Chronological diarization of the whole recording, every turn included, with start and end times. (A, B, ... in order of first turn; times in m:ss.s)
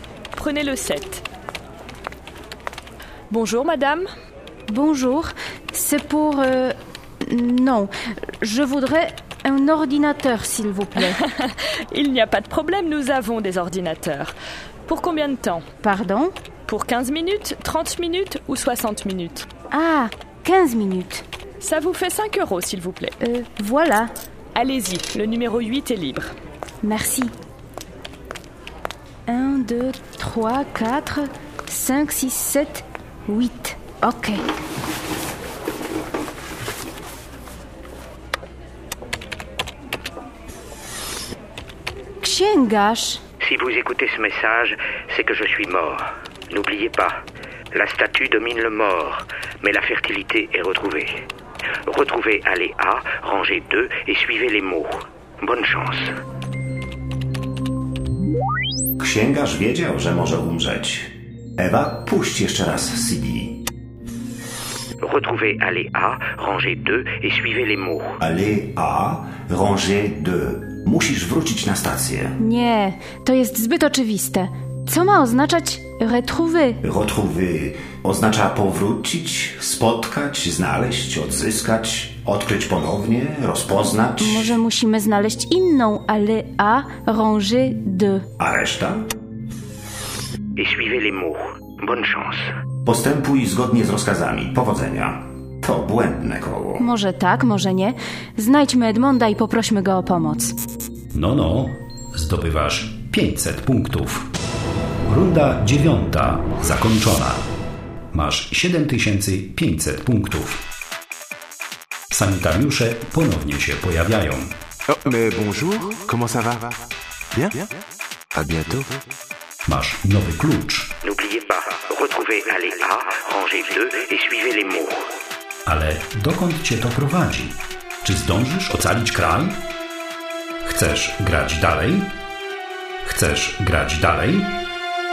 0:00.4-0:01.2 A
0:03.3-0:04.1 A
0:04.7-0:11.2 B
0:11.0-0:14.4 A
0:14.9-0:15.6 A
0:15.8-0:16.3 B
0:16.7-0:19.5 A
0:19.7-0:21.2 B
0:21.6-0:23.2 A
0:23.2-0:24.1 B
0:24.6-0:26.3 A
0:26.8-0:27.3 B
0:29.3-0:34.4 B
0:42.2-0:43.2 B
0:43.4-0:51.2 C
0:51.9-0:56.1 C
0:59.0-1:03.6 D
1:05.0-1:08.2 C
1:08.2-1:12.4 D
1:12.4-1:16.8 B
1:16.8-1:24.6 D
1:24.2-1:28.3 B
1:28.4-1:29.1 D
1:30.6-1:32.5 C
1:32.8-1:36.8 D
1:36.8-1:40.5 B
1:41.1-1:44.3 E
1:45.1-1:47.4 E
1:48.1-1:50.6 E
1:52.1-1:54.5 E
1:54.9-1:56.8 F
1:57.3-1:57.7 F
1:58.4-1:58.9 F
1:59.7-2:01.0 E
2:01.0-2:05.0 C
2:05.7-2:09.6 E
2:10.6-2:12.1 E
2:13.0-2:14.6 E